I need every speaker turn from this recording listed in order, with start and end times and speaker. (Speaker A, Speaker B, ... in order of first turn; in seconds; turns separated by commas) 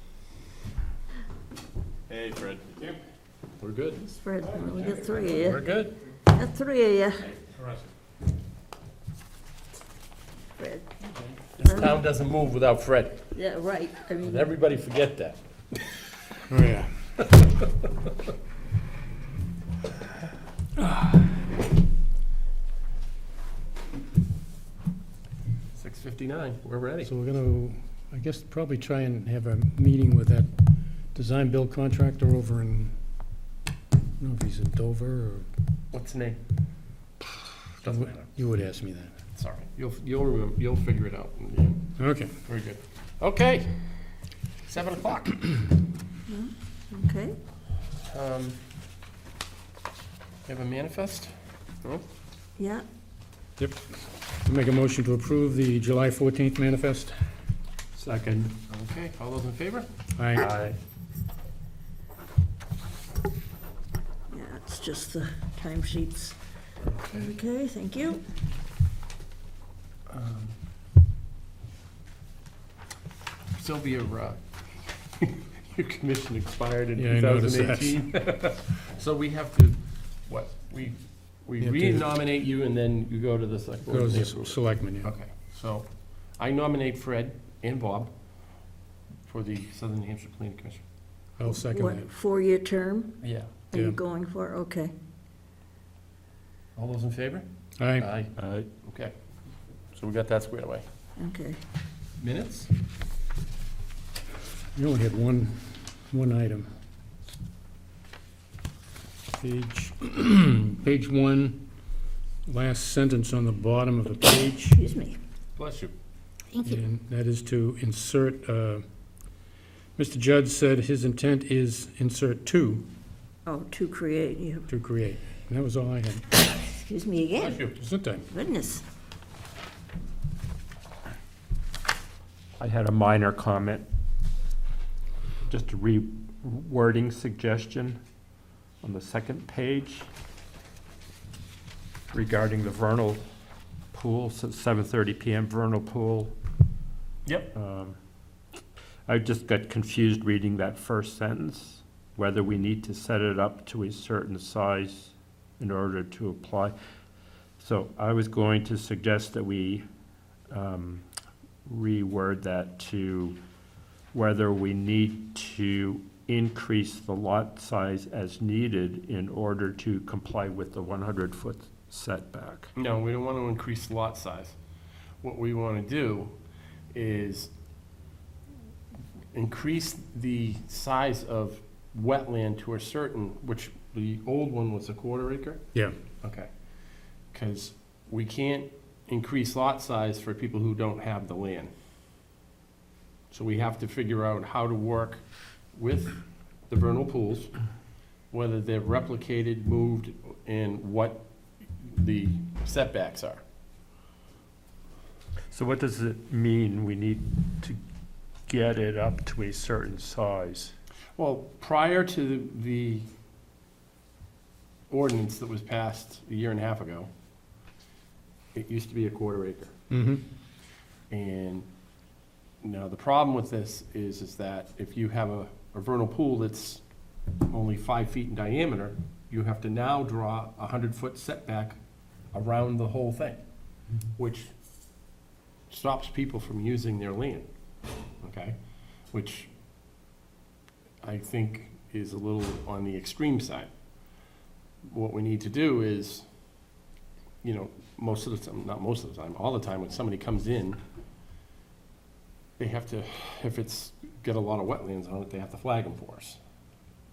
Speaker A: 2.1-3.0, Speaker A: 3.6-4.1, Speaker B: 4.1-5.6, Speaker A: 5.3-6.1, Speaker B: 6.3-7.4, Speaker B: 10.6-10.9, Speaker A: 11.4-13.3, Speaker B: 11.7-11.9, Speaker B: 13.3-14.5, Speaker A: 14.2-15.4, Speaker C: 16.5-17.3, Speaker A: 17.4-17.7, Speaker A: 25.7-27.1, Speaker C: 27.0-30.5, Speaker C: 31.1-32.9, Speaker C: 34.2-35.5, Speaker A: 35.9-36.4, Speaker A: 37.8-38.3, Speaker C: 37.8-39.1, Speaker A: 39.3-41.8, Speaker C: 42.0-42.3, Speaker A: 42.5-43.8, Speaker A: 44.7-45.5, Speaker B: 46.3-47.4, Speaker A: 48.1-48.6, Speaker A: 50.5-52.0, Speaker B: 52.6-52.9, Speaker C: 53.6-57.2, Speaker D: 58.0-58.5, Speaker A: 58.7-59.9, Speaker C: 60.2-60.5, Speaker D: 60.4-60.8, Speaker B: 64.3-66.4, Speaker A: 66.8-67.3, Speaker B: 67.2-68.2, Speaker A: 70.1-70.5, Speaker A: 73.5-88.1, Speaker C: 77.0-78.0, Speaker C: 81.6-82.1, Speaker C: 83.9-85.1, Speaker A: 89.3-90.8, Speaker C: 91.4-92.1, Speaker B: 91.4-93.2, Speaker A: 93.2-93.6, Speaker C: 93.7-94.0, Speaker B: 93.7-94.9, Speaker A: 96.8-99.1, Speaker C: 97.8-98.1, Speaker D: 98.4-98.7, Speaker A: 99.9-100.8, Speaker B: 101.2-101.6, Speaker A: 102.2-102.7, Speaker C: 104.7-106.7, Speaker C: 109.3-111.7, Speaker C: 112.5-114.8, Speaker B: 114.8-115.2, Speaker A: 115.6-115.9, Speaker C: 116.6-118.8, Speaker C: 120.0-122.9, Speaker B: 123.5-124.7, Speaker C: 124.7-126.3, Speaker B: 126.4-127.6, Speaker A: 127.4-127.8, Speaker C: 127.7-128.3, Speaker B: 128.3-128.8, Speaker D: 132.6-133.9, Speaker D: 135.5-138.0, Speaker D: 138.8-140.1, Speaker D: 142.1-143.2, Speaker D: 143.9-146.3, Speaker A: 147.3-147.5, Speaker D: 147.5-148.0, Speaker D: 149.1-156.7, Speaker D: 157.6-159.8, Speaker D: 160.5-161.1, Speaker D: 161.7-163.4, Speaker D: 164.1-172.7, Speaker A: 172.8-174.6, Speaker A: 175.2-176.3, Speaker A: 176.9-177.5, Speaker A: 179.3-185.6, Speaker A: 186.2-186.5, Speaker A: 187.3-191.7, Speaker A: 193.3-195.2, Speaker A: 195.7-197.5, Speaker A: 198.3-203.4, Speaker D: 205.5-207.8, Speaker D: 208.5-210.7, Speaker A: 211.2-213.1, Speaker A: 214.9-217.1, Speaker A: 218.6-219.7, Speaker C: 219.9-220.2, Speaker A: 221.1-221.7, Speaker A: 222.6-226.8, Speaker A: 227.4-231.8, Speaker A: 232.3-233.4, Speaker A: 234.1-234.5, Speaker A: 235.7-237.5, Speaker A: 238.2-238.6, Speaker A: 239.1-239.5, Speaker A: 241.0-243.7, Speaker A: 244.8-246.3, Speaker A: 247.4-250.8, Speaker A: 252.6-256.4